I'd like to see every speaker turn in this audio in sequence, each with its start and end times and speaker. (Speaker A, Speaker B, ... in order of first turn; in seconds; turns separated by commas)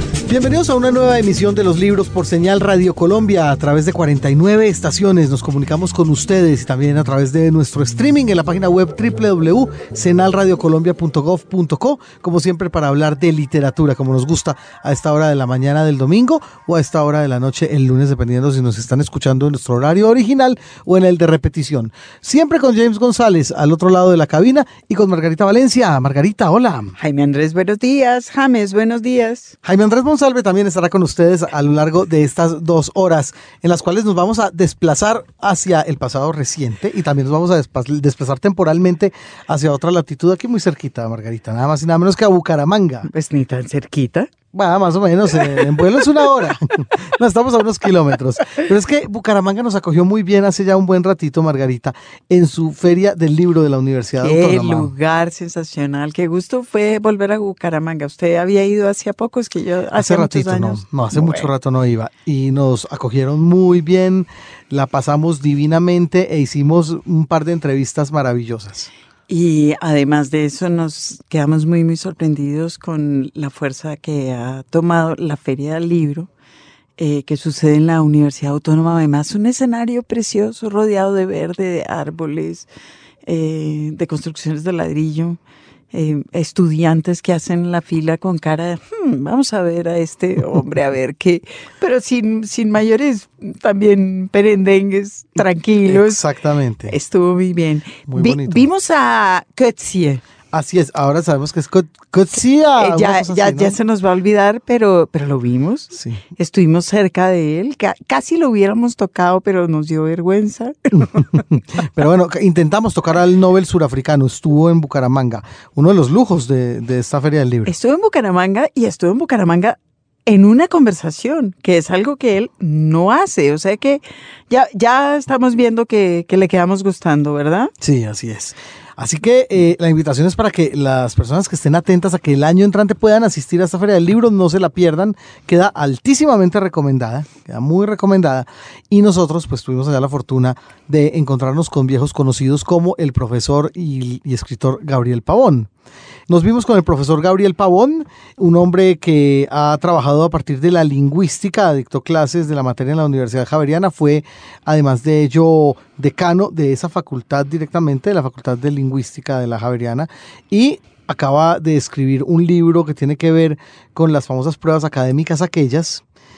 Speaker A: 0.2-26.9, Speaker B: 27.0-29.6, Speaker A: 29.6-43.1, Speaker B: 43.1-44.3, Speaker A: 44.5-54.9, Speaker B: 54.2-61.5, Speaker A: 60.0-68.9, Speaker B: 69.3-76.3, Speaker B: 77.0-82.7, Speaker B: 83.2-85.4, Speaker B: 85.9-96.2, Speaker A: 95.9-96.9, Speaker B: 96.9-100.2, Speaker A: 98.1-98.7, Speaker A: 100.5-103.8, Speaker B: 102.8-111.4, Speaker A: 105.9-106.2, Speaker A: 111.0-117.7, Speaker B: 117.7-127.7, Speaker A: 127.8-145.7, Speaker A: 146.3-166.0